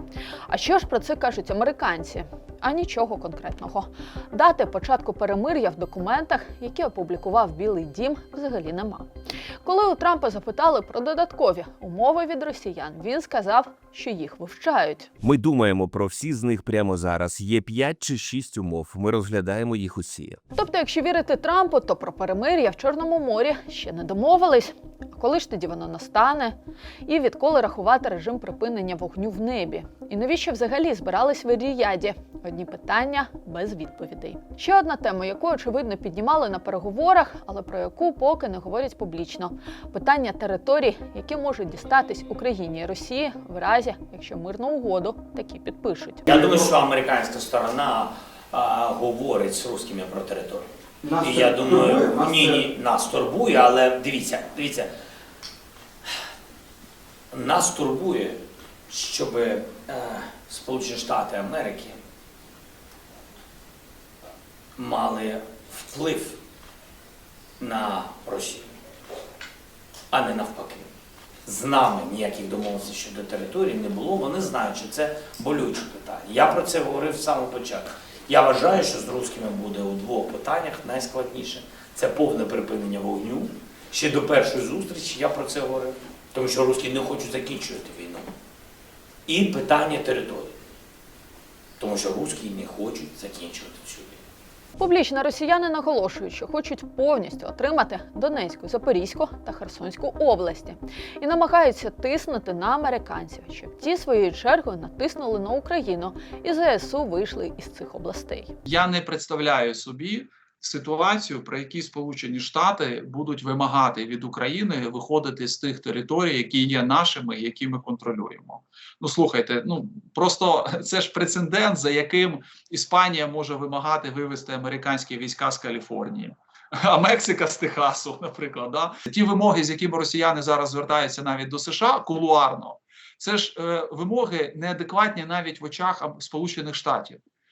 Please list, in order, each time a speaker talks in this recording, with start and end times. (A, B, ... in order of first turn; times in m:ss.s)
0:00.5-0:09.1 A
0:09.6-0:15.1 A
0:15.2-0:20.4 B
0:20.5-0:46.3 A
0:46.3-0:54.9 C
0:57.3-1:02.0 C
1:04.8-1:06.4 C
1:07.6-1:08.7 C
1:10.1-1:10.9 C
1:11.4-1:28.3 C
1:29.2-1:30.6 C
1:31.8-1:34.2 C
1:34.8-1:48.5 A
1:48.6-2:17.2 D